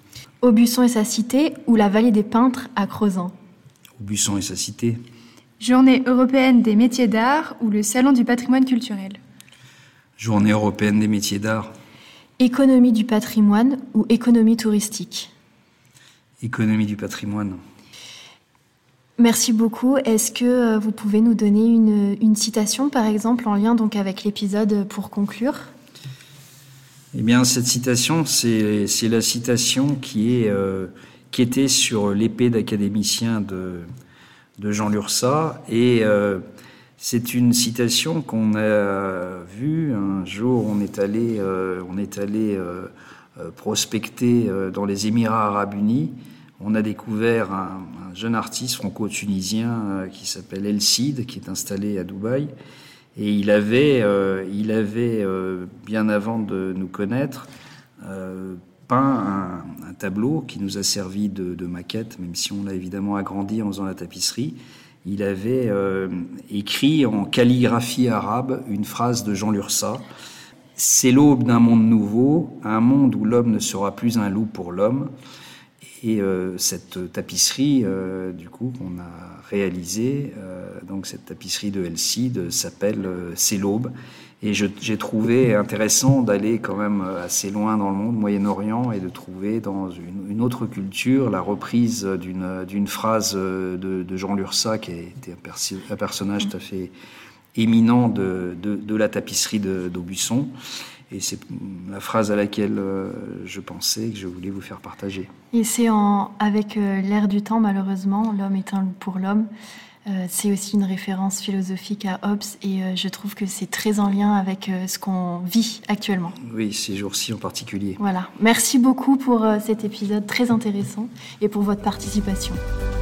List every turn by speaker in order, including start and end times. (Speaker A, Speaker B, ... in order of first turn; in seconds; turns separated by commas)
Speaker A: 0.4-3.4, Speaker B: 4.0-5.0, Speaker C: 5.6-9.2, Speaker B: 10.2-11.7, Speaker A: 12.4-15.3, Speaker B: 16.4-17.6, Speaker A: 19.2-25.7, Speaker B: 27.1-33.9, Speaker B: 34.6-36.4, Speaker B: 37.0-52.5, Speaker B: 53.1-57.5, Speaker B: 58.0-70.0, Speaker B: 70.8-75.1, Speaker B: 76.0-96.9, Speaker B: 97.5-100.5, Speaker B: 101.1-105.3, Speaker A: 105.5-109.5, Speaker A: 110.0-116.4, Speaker B: 116.4-118.0, Speaker A: 118.0-122.6